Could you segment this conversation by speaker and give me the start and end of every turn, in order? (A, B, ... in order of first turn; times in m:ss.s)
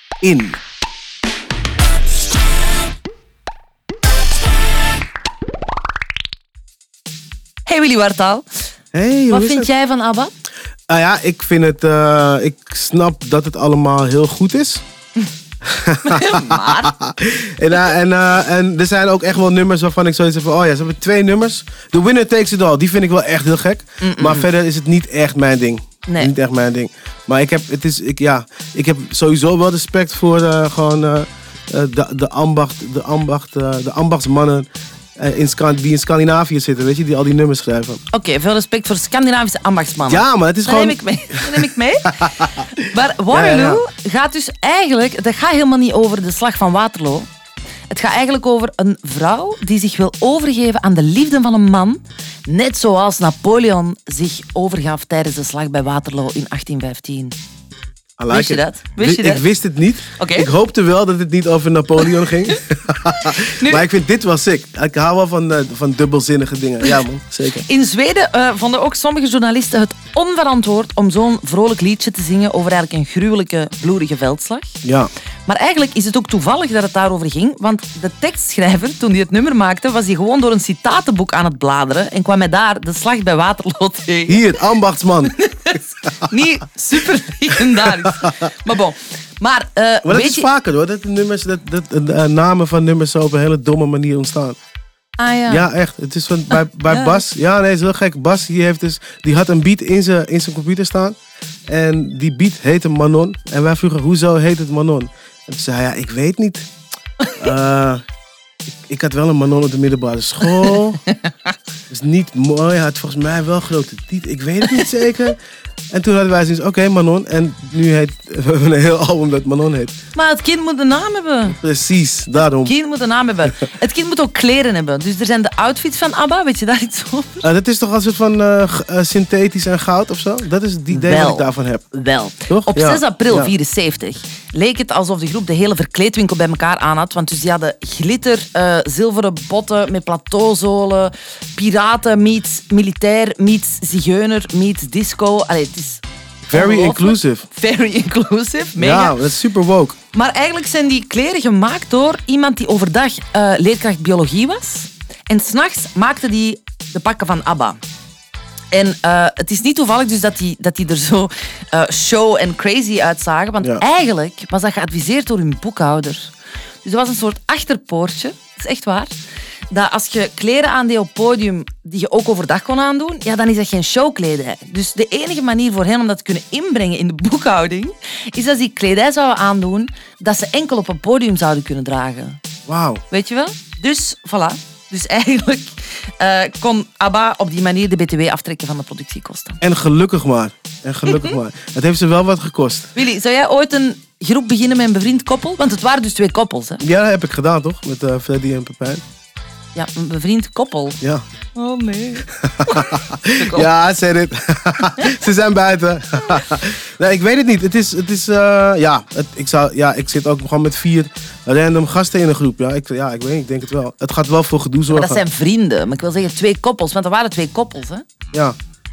0:00.2-0:00.6 A
0:07.6-0:08.4 B
0:08.9-0:09.7 A
0:09.3-0:10.3 B
0:10.9-0:14.8 A
0:15.6-0:34.6 A
0:16.0-0:16.9 B
0:24.0-0:24.5 B
0:26.1-0:26.3 B
0:35.2-0:38.0 A
0:38.1-0:47.3 B
0:40.1-0:41.6 A
0:42.2-0:42.6 A
0:43.3-0:43.8 A
0:47.9-0:57.4 B
0:58.2-1:07.6 A
0:58.3-0:59.4 B
1:00.1-1:00.5 B
1:02.1-1:02.5 B
1:03.2-1:03.8 B
1:07.6-1:14.8 B
1:14.8-1:15.1 A
1:15.4-1:24.5 B
1:24.3-1:25.3 A
1:25.3-1:30.5 B
1:27.8-1:28.3 A
1:30.0-1:34.6 A
1:35.2-1:35.7 B
1:35.5-1:41.2 A
1:36.5-1:37.2 B
1:41.7-1:46.7 A
1:47.4-1:48.0 A
1:48.7-1:51.0 A
1:50.5-1:51.5 B
1:51.9-1:55.4 A
1:55.9-1:59.9 A
2:00.1-2:01.6 B
2:01.5-2:02.7 A
2:02.5-2:07.5 B
2:07.4-2:11.8 A
2:10.9-2:29.2 B
2:12.5-2:13.5 A
2:26.5-2:27.5 A
2:28.8-2:30.0 A
2:30.1-2:37.8 B
2:38.7-2:46.3 B
2:46.8-2:49.1 B
2:49.7-3:02.4 B
3:02.7-3:03.0 A
3:03.1-3:09.6 B
3:09.6-3:12.9 A
3:12.9-3:16.8 B
3:16.8-3:19.0 A
3:19.7-3:21.0 B
3:21.5-3:23.7 B
3:22.3-3:35.2 A
3:34.9-3:38.0 B